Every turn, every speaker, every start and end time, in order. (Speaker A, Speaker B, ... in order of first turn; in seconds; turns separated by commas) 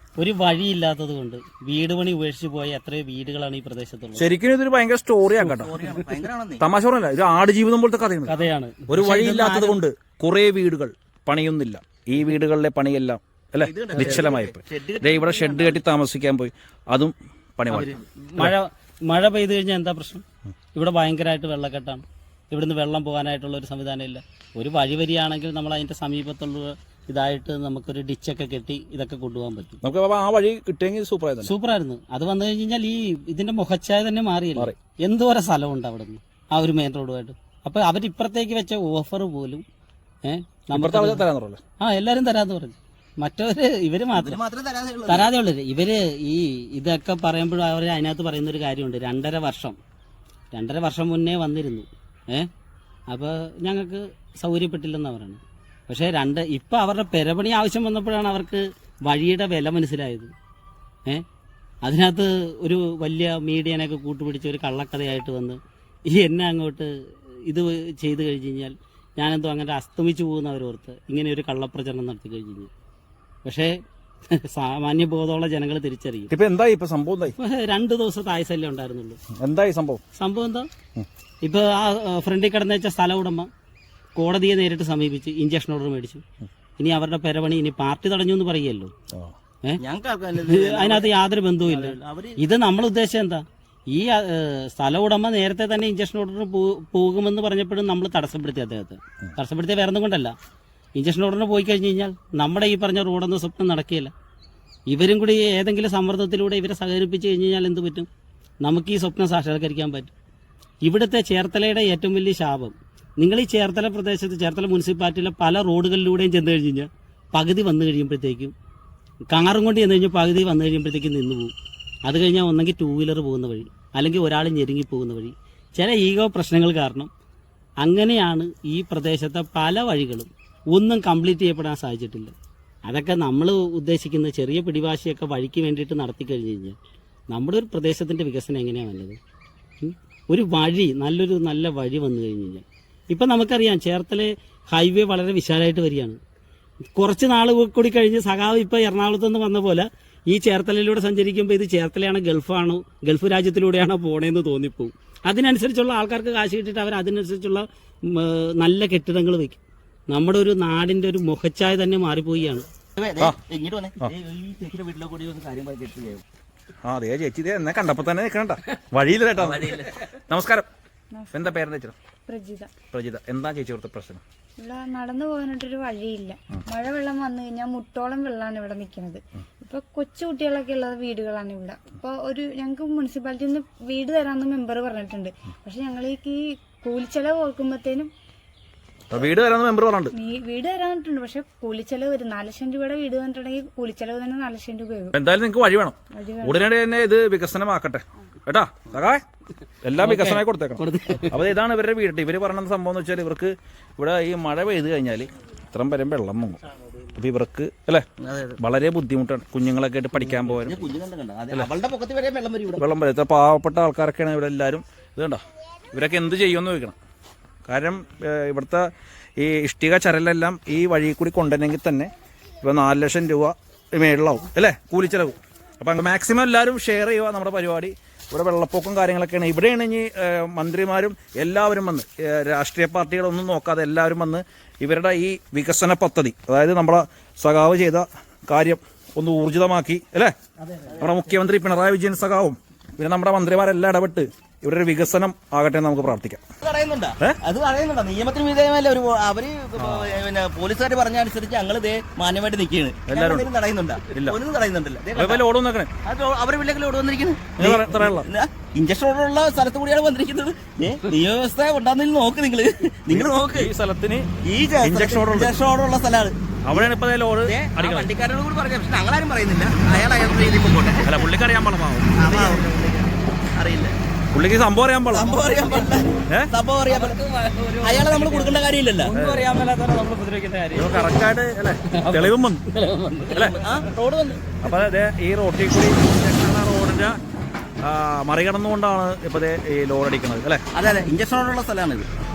Speaker A: 0.2-4.3, Speaker B: 4.2-5.7, Speaker C: 5.4-6.6, Speaker B: 6.6-8.3, Speaker A: 8.3-9.8, Speaker B: 8.9-18.5, Speaker C: 13.6-15.8, Speaker A: 17.7-20.2, Speaker A: 20.8-29.8, Speaker B: 29.8-31.5, Speaker A: 31.4-39.6, Speaker A: 40.2-41.2, Speaker B: 40.7-41.6, Speaker A: 41.8-44.4, Speaker C: 44.1-45.3, Speaker A: 45.1-49.8, Speaker A: 50.5-52.5, Speaker A: 53.1-60.3, Speaker A: 61.8-66.9, Speaker A: 67.5-72.7, Speaker A: 73.4-76.3, Speaker B: 76.3-77.3, Speaker A: 77.4-79.2, Speaker B: 79.4-80.0, Speaker A: 80.2-80.7, Speaker A: 81.4-83.5, Speaker A: 84.2-86.2, Speaker A: 86.8-88.9, Speaker C: 89.8-92.4, Speaker A: 90.4-100.3, Speaker A: 101.0-104.1, Speaker A: 104.9-108.1, Speaker A: 108.6-110.1, Speaker A: 110.8-118.5, Speaker A: 119.3-121.5, Speaker A: 122.0-127.1, Speaker A: 127.8-132.3, Speaker A: 132.8-136.8, Speaker A: 137.3-139.2, Speaker A: 139.8-146.2, Speaker A: 146.9-162.7, Speaker C: 162.9-166.2, Speaker B: 166.8-170.7, Speaker C: 169.4-169.9, Speaker D: 171.1-171.6, Speaker B: 171.3-171.9, Speaker D: 172.3-172.7, Speaker B: 172.9-174.2, Speaker D: 174.6-188.1, Speaker B: 189.1-190.1, Speaker D: 190.1-195.2, Speaker B: 195.1-199.2, Speaker D: 196.1-196.7, Speaker B: 199.8-206.6, Speaker A: 200.0-201.4, Speaker B: 207.1-208.1, Speaker C: 208.2-208.6, Speaker B: 208.6-210.8, Speaker C: 210.6-212.8, Speaker B: 212.8-216.9, Speaker B: 217.7-222.1, Speaker B: 222.6-240.3, Speaker A: 240.7-241.1, Speaker B: 241.0-246.4, Speaker C: 246.6-255.4, Speaker B: 249.8-250.2, Speaker B: 253.1-253.5, Speaker B: 254.1-254.4, Speaker B: 255.2-255.9, Speaker C: 256.0-263.7, Speaker B: 257.6-258.3, Speaker B: 263.1-264.3, Speaker C: 264.4-266.9, Speaker B: 264.8-265.5, Speaker B: 266.7-268.1, Speaker C: 267.4-271.1, Speaker B: 271.0-272.1, Speaker C: 272.2-273.0, Speaker A: 272.2-273.0, Speaker C: 273.5-273.9, Speaker B: 274.3-275.3, Speaker C: 275.1-277.1, Speaker A: 275.3-275.9, Speaker B: 276.3-276.5, Speaker A: 276.9-281.1, Speaker C: 277.8-279.1, Speaker B: 279.1-279.5, Speaker B: 280.7-282.6, Speaker A: 281.9-284.4, Speaker C: 283.4-284.1, Speaker B: 284.6-287.2, Speaker B: 287.8-290.6, Speaker C: 290.7-292.1